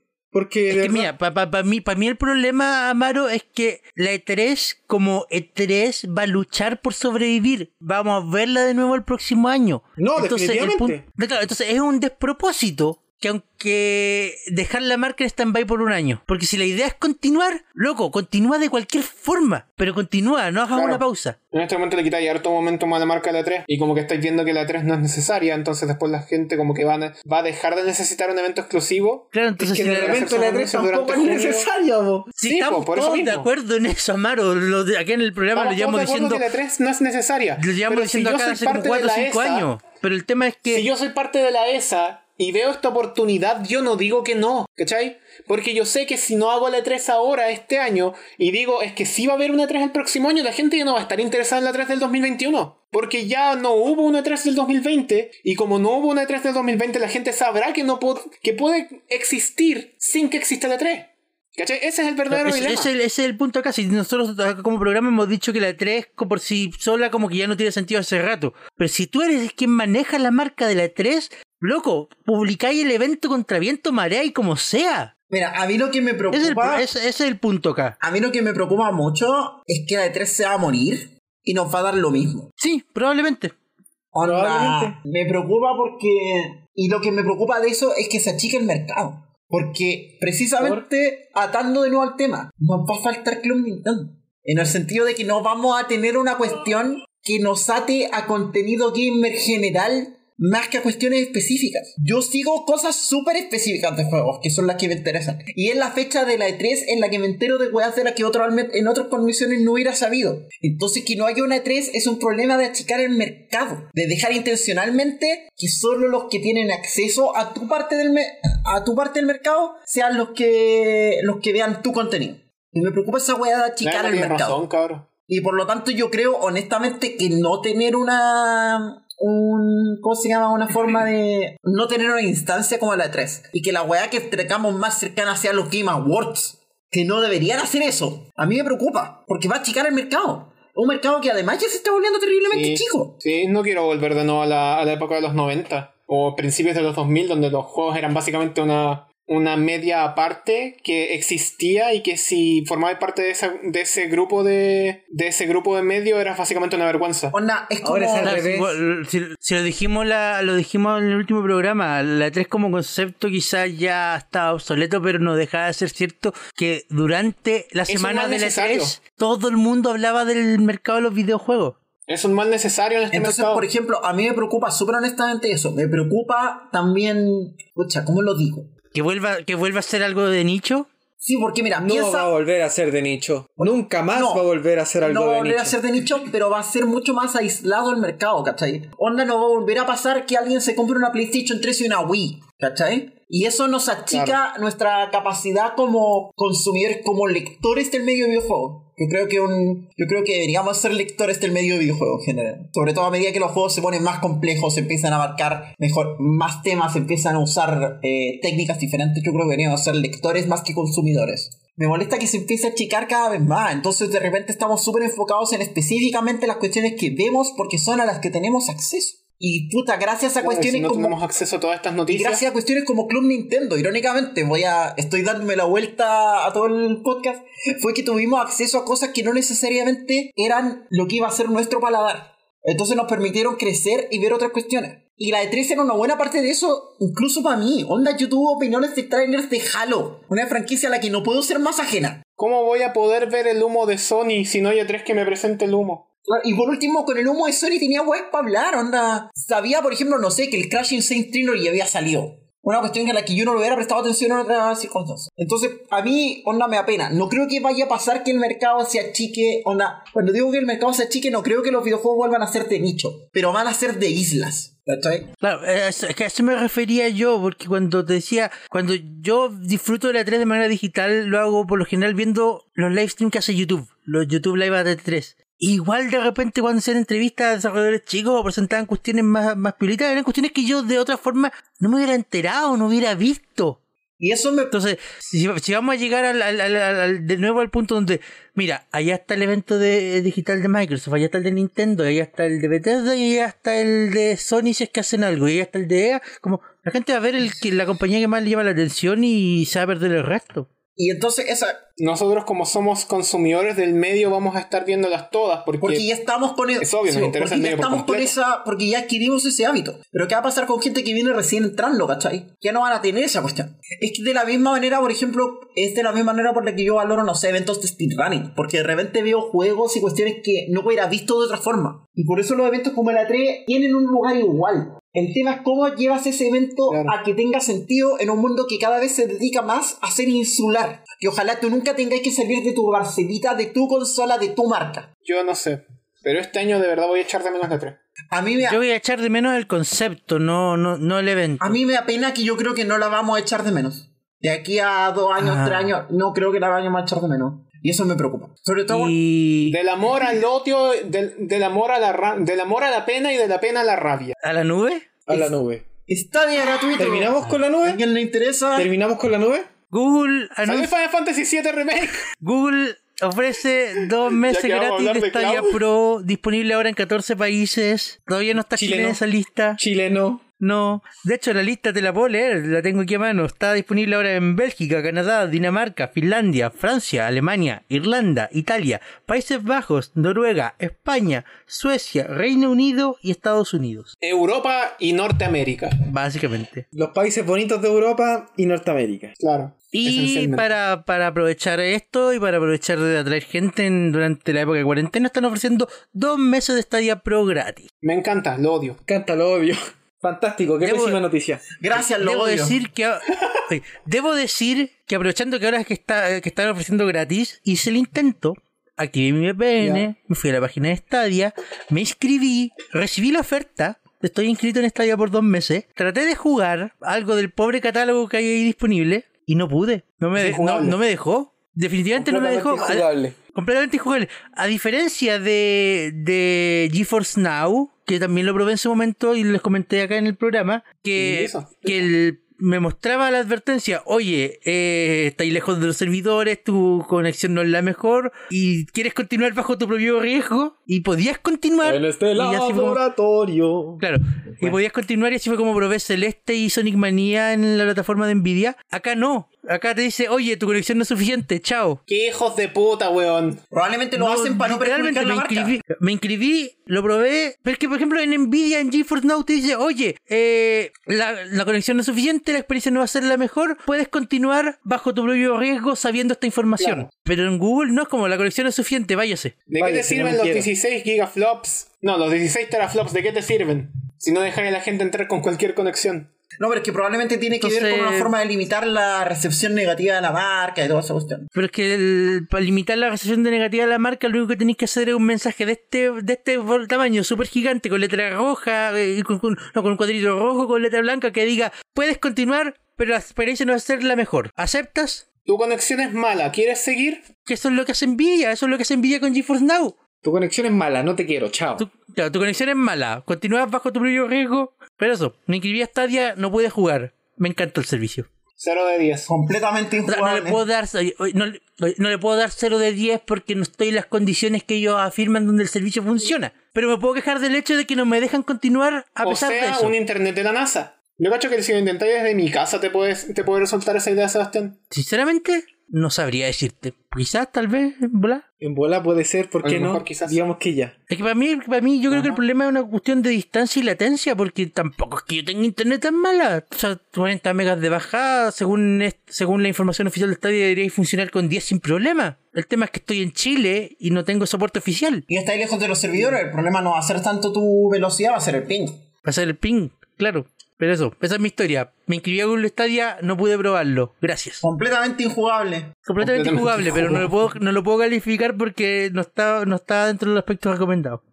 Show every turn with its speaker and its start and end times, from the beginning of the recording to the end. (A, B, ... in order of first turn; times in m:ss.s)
0:00.3-0:01.1 A
0:00.7-0:21.4 B
0:10.0-0:11.0 A
0:20.7-0:29.4 C
0:29.3-0:30.4 B
0:29.6-0:32.3 A
0:29.9-0:31.7 C
0:32.4-0:36.4 B
0:32.5-0:33.5 C
0:35.5-0:39.7 C
0:37.6-0:40.9 B
0:40.7-1:02.9 C
1:02.3-1:15.1 B
1:15.3-1:16.9 D
1:16.3-1:18.0 B
1:18.0-1:22.5 D
1:22.6-1:23.6 B
1:24.1-2:04.6 D
1:24.2-1:25.0 A
1:30.6-1:30.8 A
2:03.8-2:05.1 C
2:05.3-2:23.2 D
2:22.5-2:37.4 C
2:37.3-2:38.4 D
2:37.8-2:38.8 A
2:38.2-2:51.8 B
2:47.9-2:49.0 C
2:52.1-2:53.7 C
2:53.1-2:58.7 D
2:58.9-3:00.9 B
3:01.2-3:02.3 D
3:01.8-3:05.8 A
3:03.6-3:04.5 D
3:05.0-3:41.2 D
3:14.1-3:14.4 C
3:40.4-3:42.4 C
3:42.1-4:02.2 D
4:02.4-4:06.0 C
4:06.3-4:25.3 D
4:25.4-4:43.8 B
4:44.2-4:44.8 D
4:44.7-5:00.7 B
5:01.0-5:01.8 D
5:02.0-5:06.0 C
5:05.8-5:35.1 D
5:06.8-5:08.4 C
5:26.9-5:27.2 C
5:35.2-5:38.0 C
5:38.3-5:38.8 D
5:38.7-5:41.8 B
5:41.6-5:49.2 D
5:45.4-5:45.9 B
5:48.9-5:49.8 B
5:49.7-5:54.3 C
5:54.4-5:55.2 B
5:55.3-5:55.8 A
5:56.1-5:58.9 D
5:57.0-5:58.0 A
5:58.8-5:59.7 A
5:59.9-6:00.9 B
6:00.7-6:02.3 C
6:02.4-6:09.8 B
6:04.3-6:05.8 C
6:08.7-6:09.2 A
6:09.8-6:10.4 A
6:10.6-6:24.1 B
6:24.2-6:26.0 C
6:26.0-6:26.8 B
6:26.9-6:29.4 A
6:29.4-6:30.7 C
6:29.9-6:37.9 B
6:38.0-6:39.0 C
6:39.1-6:41.6 A
6:40.8-6:41.2 B
6:41.8-6:42.8 D
6:42.2-7:23.0 B
6:49.8-6:50.1 A
7:00.4-7:01.0 C
7:02.2-7:03.4 A
7:11.2-7:12.1 C
7:21.8-7:24.0 A
7:24.0-7:32.0 B
7:32.1-7:33.6 C
7:33.7-7:35.8 D
7:34.2-7:49.6 B
7:46.8-7:47.0 C
7:49.7-7:56.3 C
7:49.8-7:50.7 A
7:56.6-8:01.5 D
7:57.6-7:58.3 B
8:01.6-8:15.2 B
8:15.5-8:17.3 C
8:17.4-8:20.0 B
8:20.2-8:21.9 A
8:21.8-8:28.3 B
8:28.6-8:29.3 C
8:29.3-8:30.6 D
8:30.1-8:39.9 B
8:39.2-8:44.8 C
8:44.9-8:48.4 B
8:48.6-8:50.9 A
8:49.6-8:50.4 C
8:51.1-9:05.2 B
9:05.3-9:09.0 D
9:09.2-9:14.6 B
9:14.6-9:16.0 D
9:16.1-9:21.2 B
9:16.2-9:17.5 C